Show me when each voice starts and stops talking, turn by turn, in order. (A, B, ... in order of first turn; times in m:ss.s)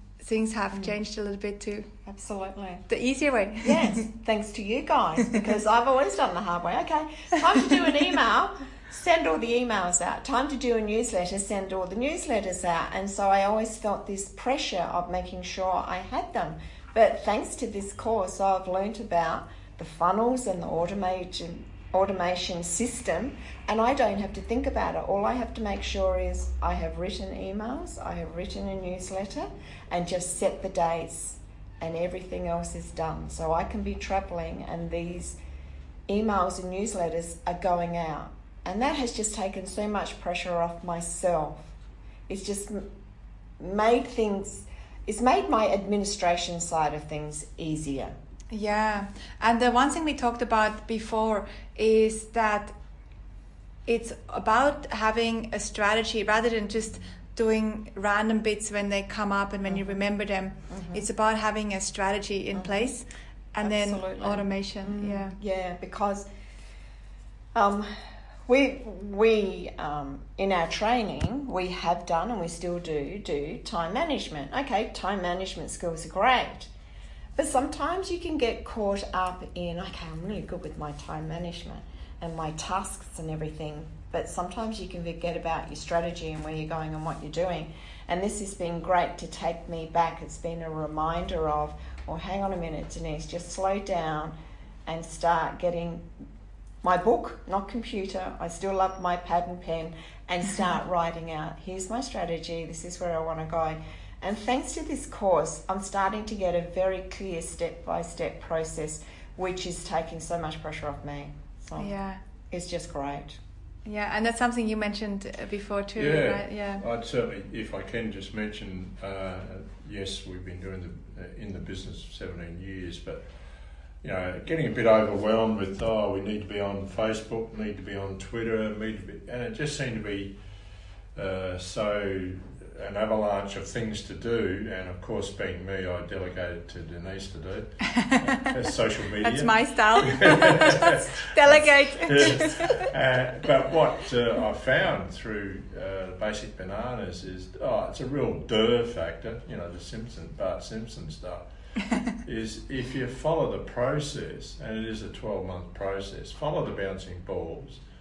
0:00.2-0:01.9 A
0:02.0-0:02.8 B
0:02.9-0:04.1 A
0:03.6-0:35.4 B
0:36.1-0:41.7 B
0:42.3-0:42.8 B
0:43.6-0:48.1 B
0:48.5-0:52.7 A
0:53.8-1:05.4 A
0:59.6-1:00.0 B
1:00.7-1:01.0 B
1:02.5-1:02.9 B
1:03.6-1:06.3 B
1:07.5-1:16.7 B
1:17.4-1:34.3 B
1:34.8-1:36.1 B
1:36.8-1:51.9 B
1:51.8-1:52.2 A
1:52.5-1:53.4 B
1:53.8-1:56.8 A
1:56.0-2:03.2 C
2:04.0-2:10.3 C
2:11.1-2:31.4 C
2:17.9-2:18.5 A
2:19.2-2:22.9 A
2:32.1-2:37.8 C